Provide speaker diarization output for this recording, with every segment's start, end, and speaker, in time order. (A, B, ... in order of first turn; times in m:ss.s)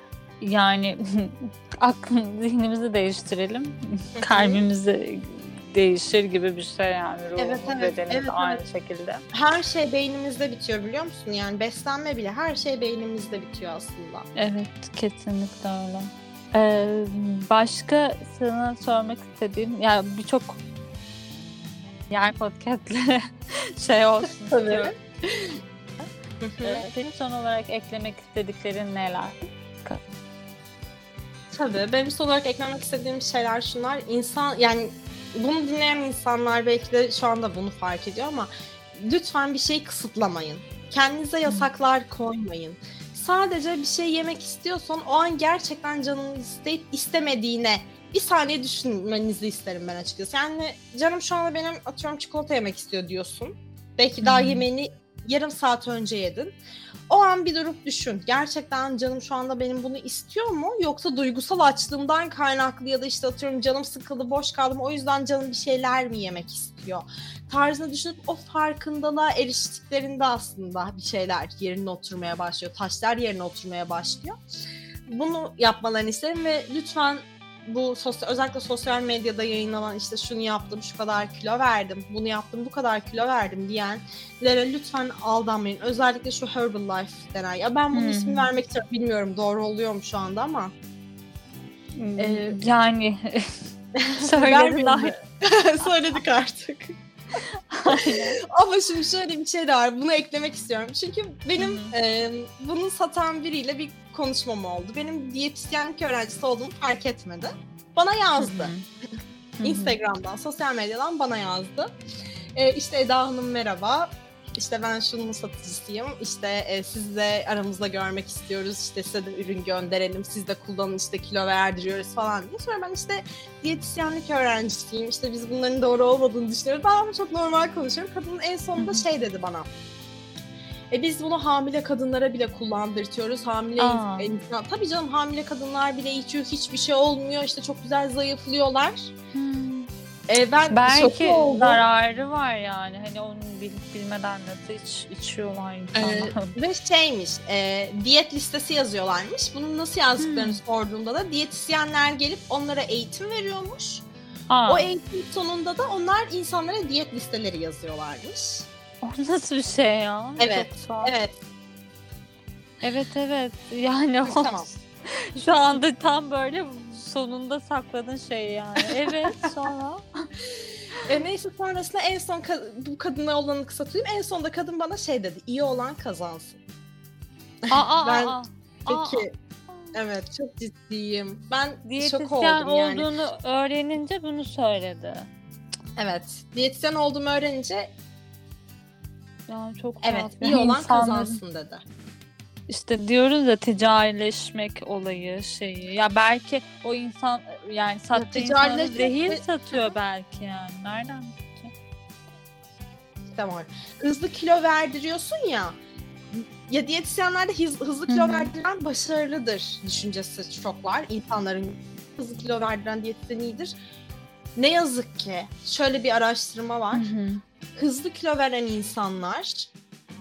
0:00.4-0:09.2 A
0:04.2-0:04.6 B
0:07.4-0:08.6 B
0:09.3-0:14.3 B
0:14.4-0:20.6 A
0:22.1-0:24.9 A
0:24.5-0:24.9 B
0:26.4-0:26.9 B
0:26.6-0:30.0 A
0:31.5-0:56.6 B
0:54.2-0:54.6 A
0:57.1-1:14.4 B
1:15.1-1:30.7 B
1:27.9-1:28.5 A
1:32.0-1:33.6 A
1:32.2-1:32.6 B
1:34.0-1:37.0 B
1:34.2-1:35.2 A
1:37.7-1:38.4 A
1:37.9-1:48.7 B
1:41.6-1:42.0 A
1:48.4-1:48.8 A
1:49.6-1:50.0 A
1:49.6-1:52.0 B
1:52.6-2:09.7 B
2:08.8-2:09.0 A
2:10.9-2:19.1 B
2:13.8-2:14.3 A
2:19.3-2:19.9 A
2:20.3-2:21.8 B
2:20.7-2:26.6 A
2:26.0-2:34.0 B
2:30.2-2:30.6 A
2:34.5-2:34.9 A
2:34.7-2:38.7 B
2:39.0-2:41.2 A
2:40.4-2:41.4 B
2:42.8-2:44.7 A
2:44.2-2:44.8 B
2:45.3-2:50.3 A
2:51.0-2:56.6 B
2:57.6-2:59.3 B
2:57.7-3:00.0 A
2:59.9-3:03.1 B
3:01.8-3:05.3 A
3:06.0-3:07.9 B
3:09.5-3:11.4 A
3:10.0-3:11.8 B
3:12.7-3:21.7 A
3:18.2-3:19.9 B
3:23.3-3:25.8 B
3:26.3-3:33.8 B
3:28.1-3:28.5 A
3:34.6-3:37.1 B
3:36.9-3:37.4 A
3:37.7-3:39.7 B